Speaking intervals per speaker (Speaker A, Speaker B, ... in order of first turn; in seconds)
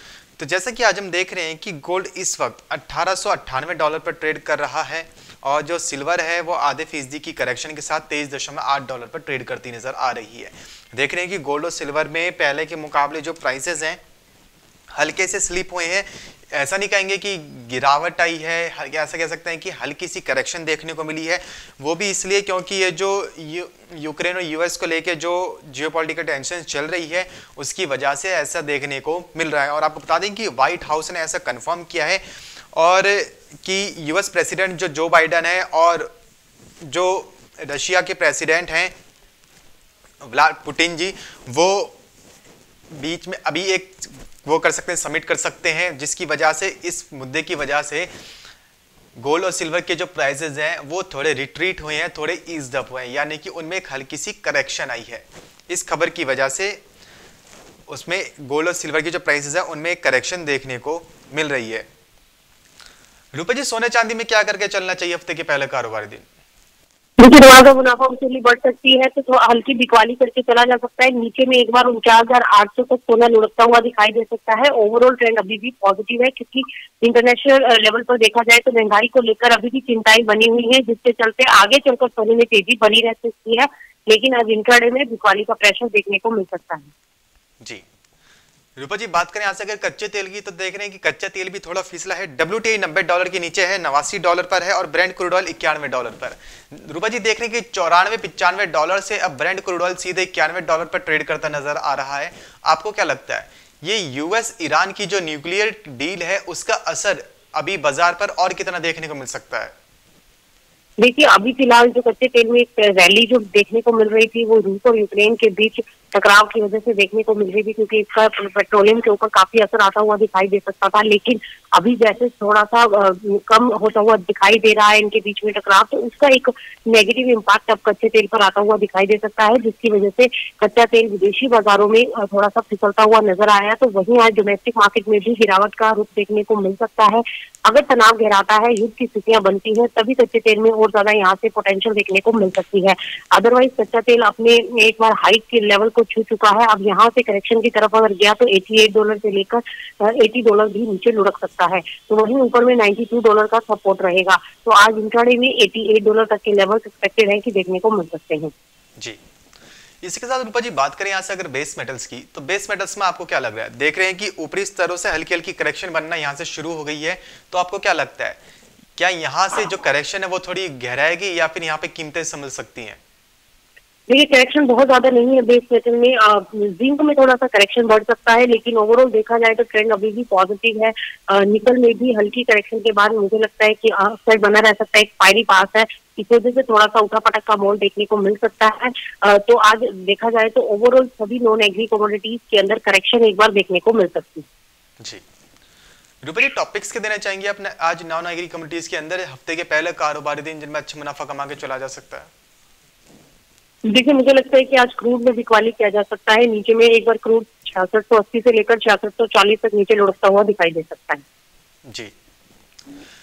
Speaker A: 0.4-14.0, 14.9-36.1, 36.8-38.9, 40.2-42.0, 42.9-48.1, 49.2-56.8, 57.9-61.9, 63.3-66.2, 88.8-109.7, 160.0-168.4, 169.0-173.0, 196.2-202.3, 211.9-212.1
Speaker B: 67.2-86.9, 111.0-158.5, 174.1-194.5, 203.9-211.2